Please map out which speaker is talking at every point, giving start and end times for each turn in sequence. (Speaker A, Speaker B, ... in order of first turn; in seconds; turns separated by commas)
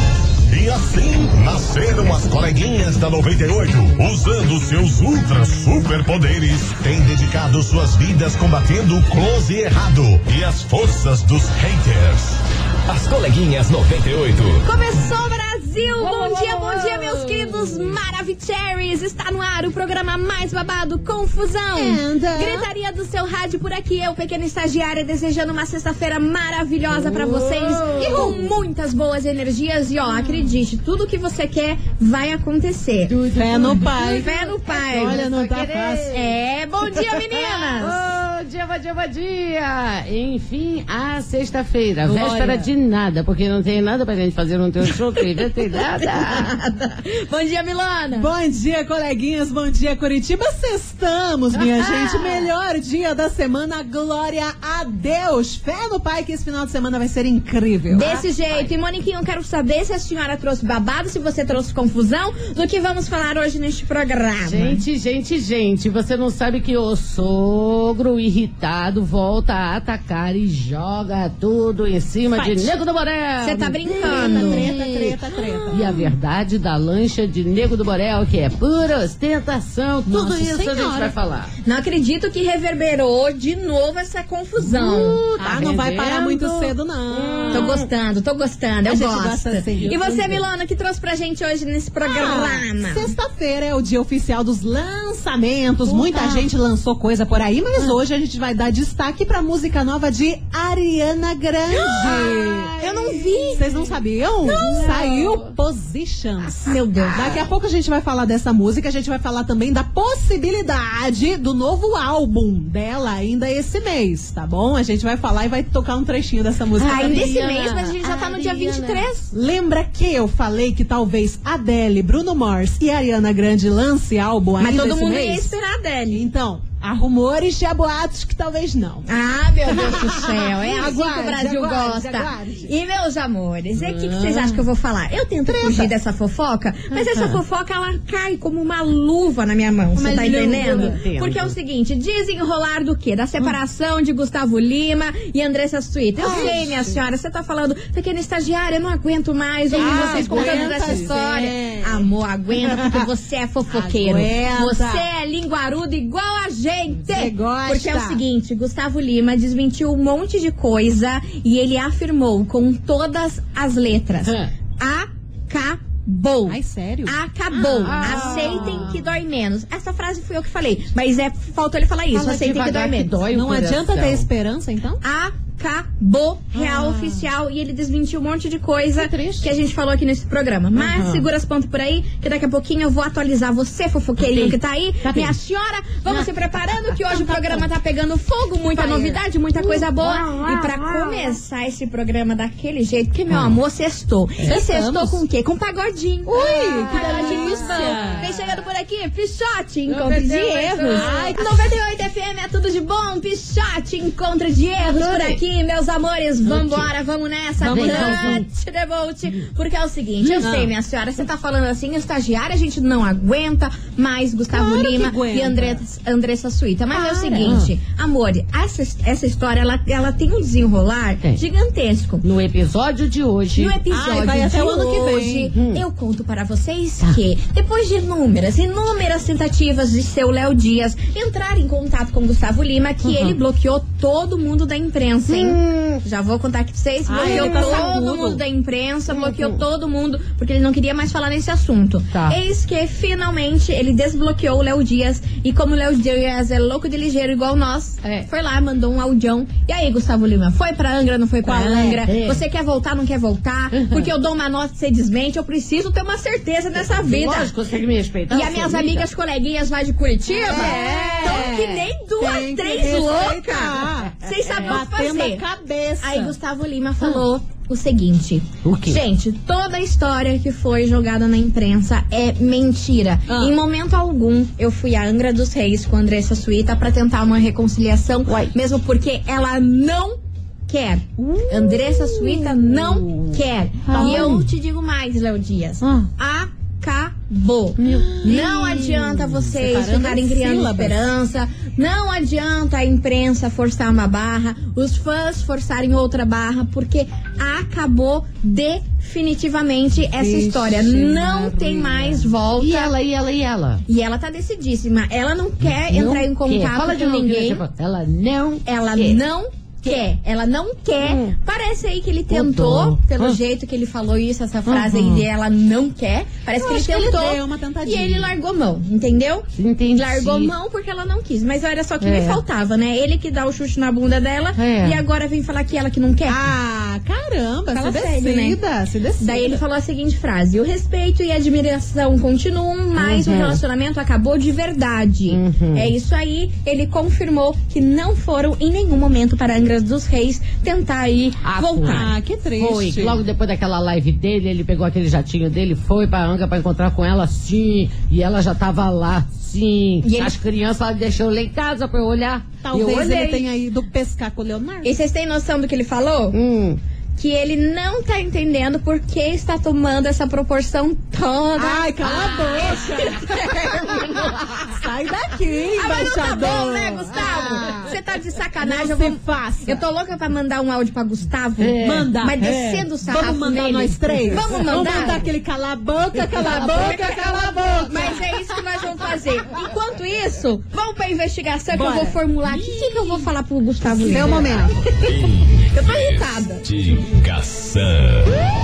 Speaker A: 0.5-12.4, Speaker B: 12.9-14.6, Speaker C: 14.6-33.1, Speaker D: 16.0-17.9, Speaker E: 21.7-22.7, Speaker D: 26.9-28.5, Speaker D: 33.1-36.3, Speaker E: 33.4-36.1, Speaker C: 33.8-35.2, Speaker C: 36.1-38.0, Speaker D: 37.0-46.5, Speaker E: 42.1-42.7, Speaker C: 45.2-48.3, Speaker E: 48.2-58.2, Speaker D: 51.5-52.5, Speaker C: 57.9-64.8, Speaker D: 64.4-81.5, Speaker E: 72.3-72.7, Speaker C: 73.4-74.7, Speaker E: 73.9-76.1, Speaker E: 80.1-81.1, Speaker C: 81.7-85.3, Speaker D: 84.6-87.9, Speaker E: 84.8-87.8, Speaker C: 87.5-93.1, Speaker E: 88.8-90.4, Speaker E: 92.0-102.7, Speaker D: 95.9-96.4, Speaker C: 102.0-102.2, Speaker D: 102.0-104.0, Speaker C: 102.8-103.7, Speaker E: 103.6-106.6, Speaker D: 104.5-105.6, Speaker C: 104.5-105.0, Speaker C: 106.4-107.4, Speaker D: 106.9-107.4, Speaker E: 107.1-117.4, Speaker D: 116.8-119.1, Speaker C: 116.8-119.3, Speaker E: 119.3-125.5, Speaker C: 124.6-126.2, Speaker E: 126.1-129.1, Speaker C: 129.1-173.2, Speaker E: 129.7-132.7, Speaker D: 133.8-134.7, Speaker E: 135.5-135.9, Speaker D: 136.9-137.4, Speaker E: 140.0-141.0, Speaker D: 140.0-141.6, Speaker D: 146.2-146.8, Speaker E: 146.2-146.9, Speaker E: 149.7-152.1, Speaker D: 149.7-151.1, Speaker E: 152.6-153.0, Speaker E: 153.7-155.1, Speaker E: 157.1-158.2, Speaker D: 164.2-164.5, Speaker E: 166.5-168.5, Speaker D: 167.8-169.1, Speaker D: 172.1-174.3, Speaker E: 173.3-175.0, Speaker C: 175.0-222.2, Speaker E: 176.6-177.1, Speaker E: 179.0-179.4, Speaker D: 180.8-181.2, Speaker D: 184.2-185.4, Speaker D: 186.1-186.3, Speaker E: 187.1-187.7, Speaker E: 188.8-189.2, Speaker D: 190.0-191.3, Speaker D: 193.3-193.6, Speaker E: 194.5-195.2, Speaker E: 196.3-198.3, Speaker D: 196.4-198.5, Speaker D: 199.9-201.2, Speaker E: 200.1-201.7, Speaker E: 205.0-205.3, Speaker D: 206.5-206.9, Speaker E: 207.6-208.4, Speaker D: 207.6-208.4, Speaker D: 210.2-210.5, Speaker E: 210.4-210.7, Speaker E: 214.5-215.8, Speaker E: 216.9-217.6, Speaker D: 217.4-217.7, Speaker D: 222.2-223.8, Speaker C: 223.6-257.5, Speaker E: 223.9-225.5, Speaker D: 225.5-225.8, Speaker D: 233.0-233.4, Speaker D: 235.3-236.0, Speaker E: 237.1-238.4, Speaker D: 237.2-238.0, Speaker D: 239.1-239.6, Speaker D: 242.1-242.4, Speaker D: 248.0-248.3, Speaker E: 251.4-252.1, Speaker D: 252.0-252.4, Speaker D: 253.7-254.1, Speaker D: 256.7-259.1, Speaker C: 258.3-265.4, Speaker E: 260.4-266.4, Speaker D: 260.5-261.8, Speaker D: 264.4-264.8, Speaker C: 266.0-280.2, Speaker D: 268.6-269.0, Speaker E: 273.3-273.6, Speaker D: 278.3-278.6, Speaker C: 280.7-302.9, Speaker E: 281.2-283.3, Speaker D: 283.9-284.5, Speaker E: 283.9-284.4, Speaker D: 285.8-286.1, Speaker D: 287.8-289.5, Speaker E: 287.9-288.6, Speaker E: 289.5-291.1, Speaker E: 300.2-302.3, Speaker D: 302.6-303.8, Speaker C: 303.9-307.6, Speaker D: 305.6-309.2, Speaker C: 308.7-326.4, Speaker D: 311.0-311.4, Speaker D: 312.3-313.4, Speaker D: 314.7-315.3, Speaker E: 316.5-318.3, Speaker D: 319.6-320.5, Speaker D: 322.0-322.4, Speaker D: 324.6-325.0, Speaker E: 326.3-329.6, Speaker C: 327.7-328.6, Speaker C: 329.2-342.1, Speaker D: 333.0-333.6, Speaker D: 335.3-335.9, Speaker D: 341.4-353.5, Speaker E: 341.9-343.2, Speaker C: 350.0-350.4, Speaker E: 352.6-355.0, Speaker C: 354.8-356.4, Speaker D: 356.3-356.8, Speaker C: 357.2-363.9, Speaker E: 361.6-367.9, Speaker C: 365.8-375.2, Speaker E: 368.6-369.8, Speaker D: 371.6-372.9, Speaker E: 371.8-372.4, Speaker E: 373.0-378.2, Speaker D: 374.4-375.2, Speaker C: 376.4-384.7, Speaker E: 381.7-382.2, Speaker E: 383.8-385.1, Speaker B: 385.0-388.3, Speaker C: 385.7-386.7